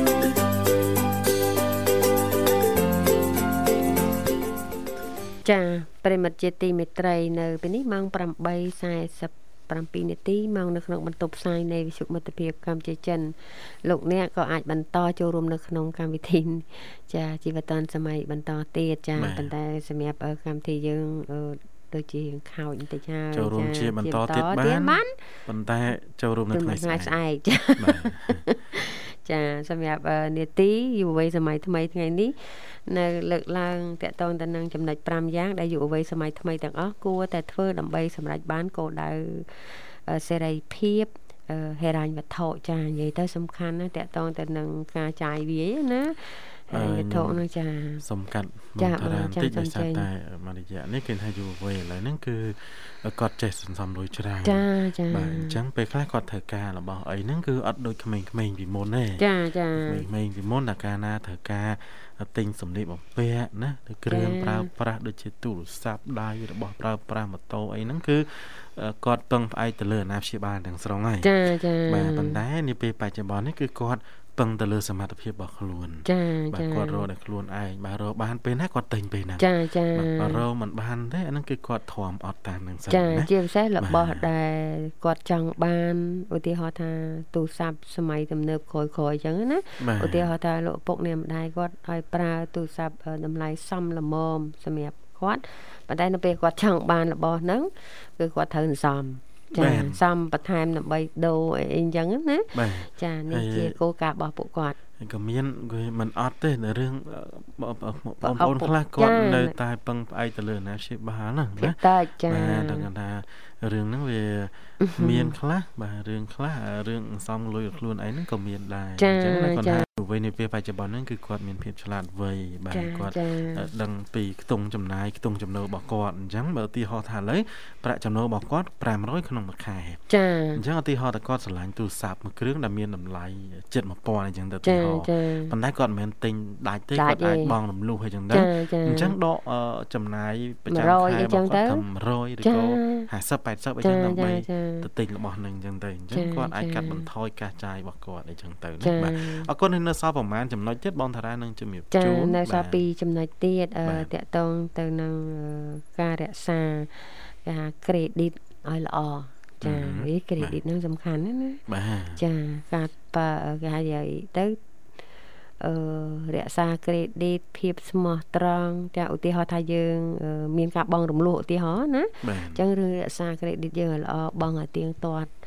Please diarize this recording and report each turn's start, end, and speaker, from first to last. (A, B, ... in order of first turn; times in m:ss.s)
0:05.4-0:25.2 A
0:19.2-0:19.5 B
0:23.3-0:27.1 B
0:26.5-0:48.0 A
0:27.8-0:28.5 B
0:46.7-0:47.4 B
0:48.0-0:59.2 B
0:48.8-0:50.1 A
0:54.4-0:55.6 A
0:59.2-1:00.1 A
0:59.8-1:11.3 B
1:04.1-1:04.7 A
1:11.2-1:12.4 A
1:11.8-1:24.3 B
1:16.0-1:17.1 A
1:19.4-1:20.4 A
1:22.9-1:44.8 A
1:29.8-1:30.3 B
1:39.6-1:40.0 B
1:42.5-1:43.8 B
1:45.0-2:10.0 B
1:48.2-1:49.5 A
1:51.6-1:52.9 A
1:54.8-1:55.4 A
1:59.0-1:59.8 A
2:02.7-2:03.7 A
2:10.1-2:10.6 A
2:10.5-2:32.8 B
2:14.6-2:15.5 A
2:16.9-2:17.5 A
2:18.3-2:19.2 A
2:20.7-2:21.8 A
2:22.4-2:23.1 A
2:23.8-2:24.9 A
2:26.1-2:27.1 A
2:28.8-2:29.5 A
2:31.9-2:41.6 A
2:33.8-2:34.1 B
2:39.6-2:40.6 B
2:41.7-2:42.2 B
2:42.2-2:44.6 A
2:45.6-2:55.3 A
2:52.2-2:52.6 B